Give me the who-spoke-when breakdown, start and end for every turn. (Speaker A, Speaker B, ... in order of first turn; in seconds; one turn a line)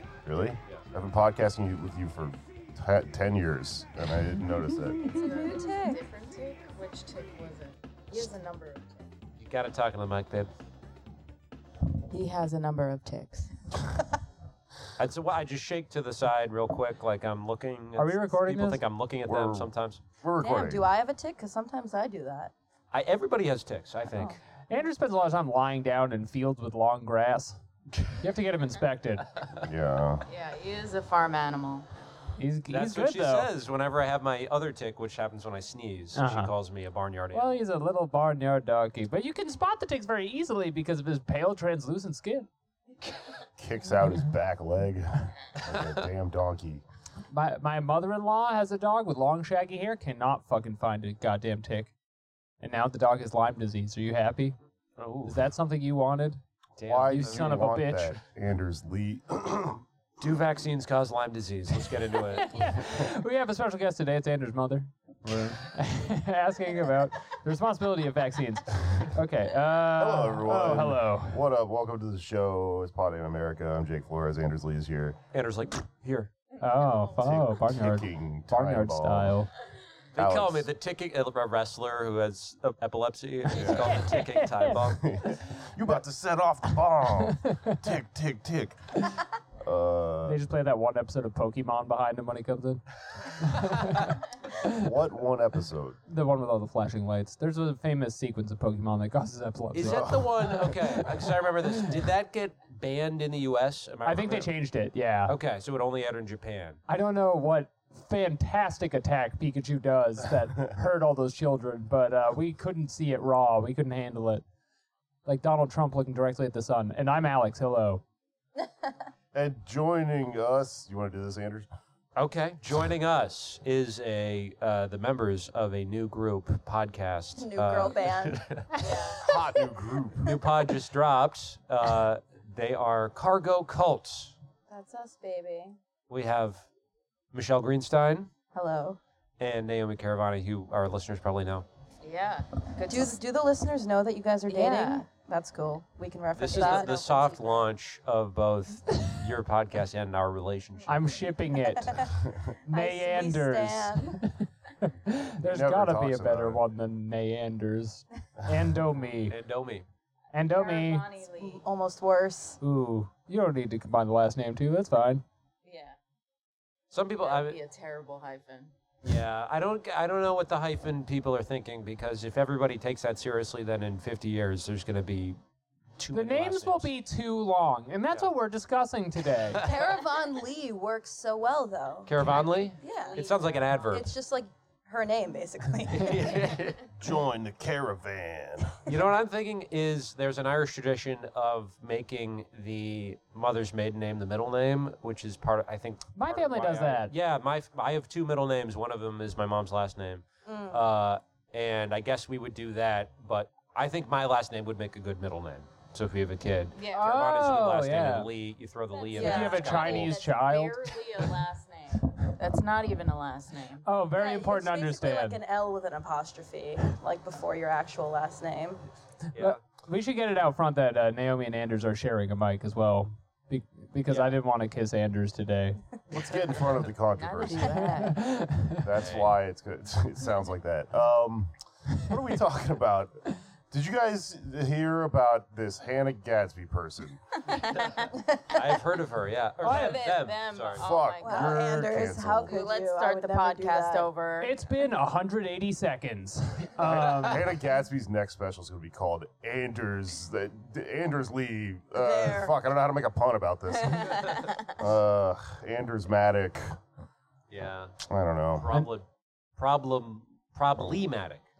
Speaker A: 0.2-5.1
Speaker B: 5.0-6.0
Speaker C: 5.0-9.1
Speaker D: 9.4-10.5
Speaker C: 12.1-13.8
Speaker D: 15.0-20.0
Speaker E: 17.9-18.8
Speaker A: 19.2-20.9
Speaker B: 20.4-22.5
Speaker D: 22.9-24.4
Speaker B: 24.1-24.4
Speaker E: 24.7-27.6
Speaker E: 28.2-29.3
Speaker A: 29.6-30.2
Speaker C: 30.2-31.9
Speaker E: 32.4-33.5
Speaker D: 32.7-37.6
Speaker E: 36.1-36.5
Speaker E: 37.3-42.5
Speaker A: 43.6-46.8
Speaker E: 47.3-51.9
Speaker E: 52.6-54.6
Speaker D: 55.0-55.4
Speaker E: 55.2-56.4
Speaker D: 56.8-57.5
Speaker A: 56.8-59.8
Speaker E: 57.1-58.2
Speaker D: 60.2-62.5
Speaker E: 62.3-71.4
Speaker A: 69.9-75.2
Speaker D: 75.3-76.3
Speaker E: 76.6-79.5
Speaker A: 77.2-79.4
Speaker D: 80.1-85.1
Speaker A: 80.2-80.7
Speaker A: 83.5-83.9
Speaker E: 83.7-85.3
Speaker A: 84.9-88.8
Speaker E: 87.2-87.8
Speaker A: 89.6-90.4
Speaker E: 90.2-92.8
Speaker E: 93.4-94.9
Speaker A: 94.6-96.0
Speaker E: 96.1-101.8
Speaker D: 99.7-104.5
Speaker A: 99.8-100.5
Speaker E: 104.0-105.3
Speaker D: 105.3-106.8
Speaker E: 106.9-114.4
Speaker E: 115.2-118.0
Speaker A: 119.3-121.7
Speaker D: 122.1-128.7
Speaker B: 127.4-128.9
Speaker C: 128.8-129.3
Speaker A: 129.2-130.4
Speaker D: 130.2-134.3
Speaker C: 134.7-135.8
Speaker D: 136.1-136.6
Speaker D: 137.3-138.3
Speaker B: 138.5-139.0
Speaker D: 139.4-141.7
Speaker C: 142.0-143.2
Speaker B: 142.9-147.0
Speaker C: 144.5-145.0
Speaker D: 146.4-151.1
Speaker C: 146.5-147.4
Speaker E: 150.9-159.3
Speaker B: 151.8-152.1
Speaker B: 152.7-154.2
Speaker A: 155.4-156.6
Speaker D: 159.3-159.8
Speaker E: 160.3-161.1
Speaker C: 160.5-161.6
Speaker B: 161.3-162.6
Speaker E: 162.6-165.2
Speaker C: 165.6-166.0
Speaker D: 166.9-167.6
Speaker C: 167.2-168.7
Speaker D: 169.0-175.4
Speaker D: 176.0-176.9
Speaker E: 176.1-179.6
Speaker B: 179.5-183.2
Speaker D: 182.1-184.1
Speaker C: 182.2-184.0
Speaker B: 183.9-186.5
Speaker D: 185.9-186.8
Speaker A: 187.0-188.8
Speaker D: 188.8-210.1
Speaker E: 196.1-197.1
Speaker B: 200.4-200.8
Speaker C: 206.7-207.1
Speaker E: 206.9-208.3
Speaker C: 208.9-213.8
Speaker B: 209.1-209.6
Speaker E: 209.1-211.0
Speaker E: 213.8-215.4
Speaker B: 214.1-218.8
Speaker D: 219.3-219.6
Speaker E: 219.4-225.8
Speaker A: 226.1-227.9
Speaker C: 227.2-228.2
Speaker E: 227.8-228.9
Speaker A: 228.8-237.2
Speaker D: 229.0-229.3
Speaker C: 237.5-238.1
Speaker B: 238.3-238.6
Speaker D: 238.5-240.8
Speaker E: 239.6-240.0
Speaker C: 239.6-241.7
Speaker A: 240.8-242.6
Speaker B: 241.2-244.1
Speaker C: 242.4-244.6
Speaker E: 244.4-247.5
Speaker A: 246.8-256.8
Speaker B: 252.0-252.5
Speaker C: 253.8-254.7
Speaker D: 257.5-258.0
Speaker A: 258.0-258.6
Speaker D: 258.6-259.1
Speaker D: 259.6-261.4